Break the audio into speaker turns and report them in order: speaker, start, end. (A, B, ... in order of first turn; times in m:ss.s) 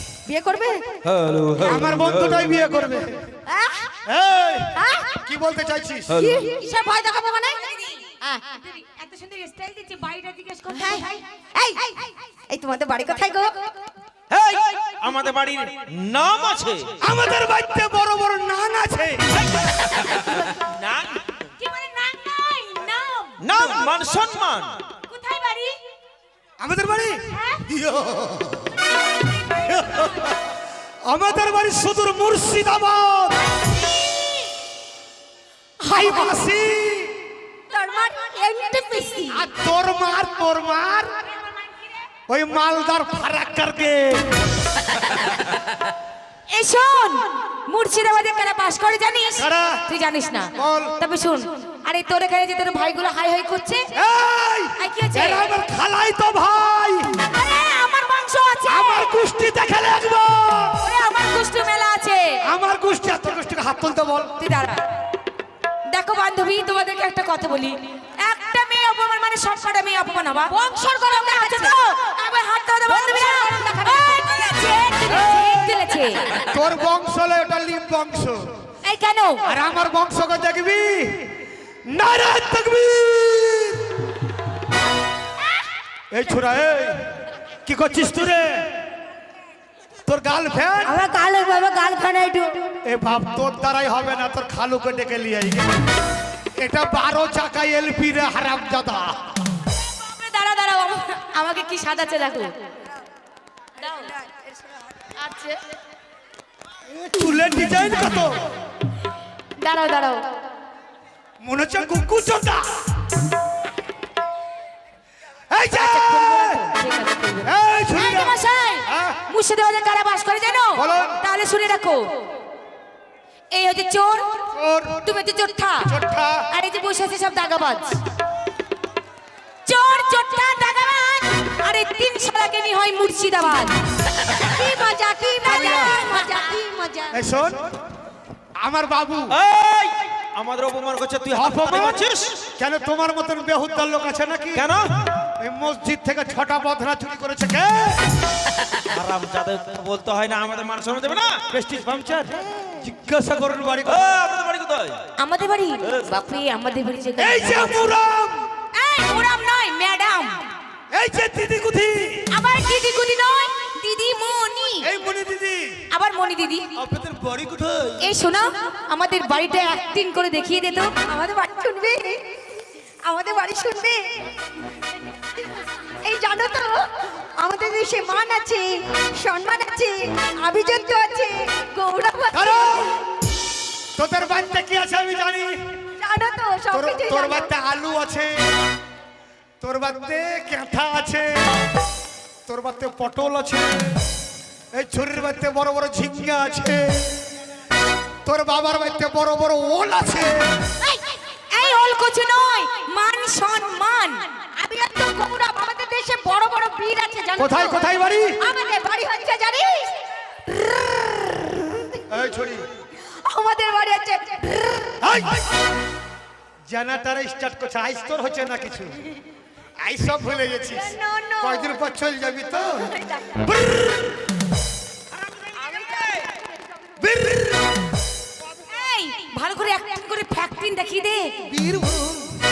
0:00.3-0:00.8 A
0:01.0-0:02.5 B
0:01.6-0:03.3 C
0:03.5-0:03.9 A
0:04.1-0:06.1 C
0:04.8-0:05.2 A
0:06.1-0:06.4 B
0:06.1-0:07.6 A
0:07.6-0:11.2 D
0:10.8-0:13.7 A
0:14.3-0:17.0 B
0:17.0-0:19.4 C
0:19.4-0:21.2 B
0:21.6-0:23.9 D
0:23.4-0:24.8 B
0:25.1-0:25.8 D
0:26.6-0:28.7 C
0:31.0-0:33.4 C
0:35.9-0:37.2 C
0:37.7-0:39.5 A
0:39.3-0:41.2 C
0:42.3-0:44.4 C
0:46.5-0:53.8 D
0:49.4-0:49.8 C
0:50.6-0:51.0 C
0:54.0-0:57.3 C
0:54.8-0:55.5 D
0:57.3-0:59.1 D
0:58.6-1:00.9 C
1:00.8-1:02.4 D
1:02.4-1:04.4 C
1:04.4-1:04.8 D
1:05.9-1:10.5 D
1:10.5-1:12.1 A
1:11.3-1:16.3 D
1:12.8-1:14.5 A
1:16.4-1:18.6 C
1:18.8-1:19.5 D
1:19.4-1:24.0 C
1:26.1-1:28.8 C
1:30.1-1:31.0 C
1:30.8-1:32.8 A
1:32.8-1:35.7 C
1:36.6-1:39.3 C
1:40.0-1:42.5 D
1:43.8-1:44.1 D
1:45.2-1:45.6 D
1:46.9-1:48.4 C
1:49.6-1:50.3 D
1:51.4-1:52.9 C
1:55.5-1:56.7 C
1:55.7-2:02.3 D
1:57.4-1:59.2 C
2:00.8-2:01.2 C
2:03.5-2:04.2 D
2:04.5-2:05.1 C
2:05.0-2:05.9 D
2:05.8-2:06.5 C
2:06.5-2:08.0 D
2:09.7-2:13.8 D
2:14.4-2:17.2 A
2:15.4-2:16.0 C
2:17.1-2:17.7 C
2:18.6-2:19.4 C
2:19.3-2:22.5 B
2:21.3-2:22.0 C
2:22.6-2:24.7 C
2:24.5-2:24.9 B
2:25.4-2:28.0 C
2:28.8-2:31.5 B
2:31.5-2:34.1 C
2:33.8-2:35.0 B
2:35.2-2:37.8 D
2:37.2-2:38.5 C
2:38.8-2:40.5 D
2:40.9-2:42.3 C
2:42.3-2:44.9 D
2:44.8-2:45.8 C
2:45.9-2:46.7 D
2:46.8-2:48.1 C
2:48.0-2:51.0 D
2:51.0-2:52.3 A
2:53.0-2:54.3 A
2:56.0-3:02.9 A
3:02.3-3:03.0 C
3:04.0-3:05.5 C
3:06.0-3:07.5 A
3:06.7-3:08.4 C
3:09.6-3:11.5 C
3:12.5-3:14.0 C
3:14.7-3:17.2 C
3:18.2-3:20.6 C
3:21.5-3:24.3 D
3:24.6-3:27.8 A
3:27.4-3:28.4 C
3:28.4-3:30.0 A
3:32.1-3:32.6 C
3:33.2-3:34.9 A
3:35.0-3:35.5 C
3:36.7-3:39.0 C
3:39.8-3:44.2 C
3:40.7-3:41.7 A
3:47.0-3:47.8 C
3:48.6-3:51.3 D
3:51.5-3:52.4 C